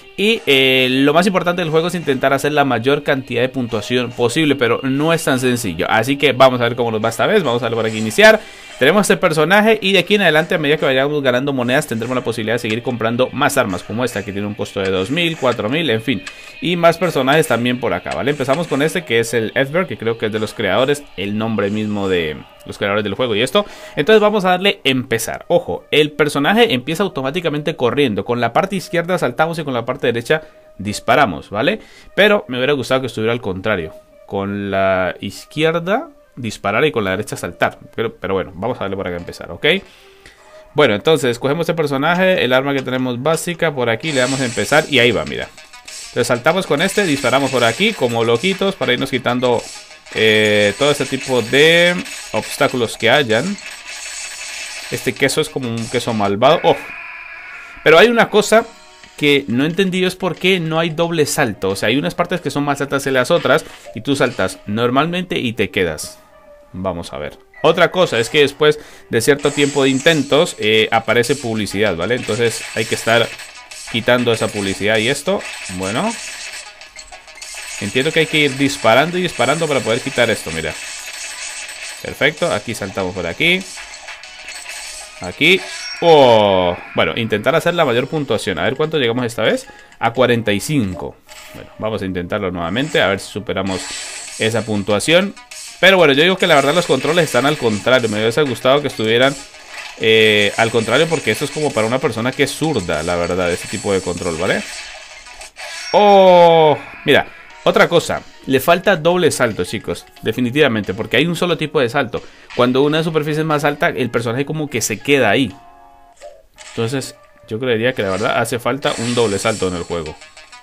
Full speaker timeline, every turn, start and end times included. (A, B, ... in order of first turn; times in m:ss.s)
0:00.2-0:39.8 A
0:40.7-0:45.5 A
0:46.1-0:53.6 A
0:54.9-0:56.9 A
0:57.8-1:06.2 A
1:06.7-1:13.3 A
1:13.9-1:16.2 A
1:17.8-1:20.8 A
1:22.0-1:23.7 A
1:25.2-1:39.4 A
1:40.0-1:44.6 A
1:45.9-1:55.6 A
1:56.7-2:00.2 A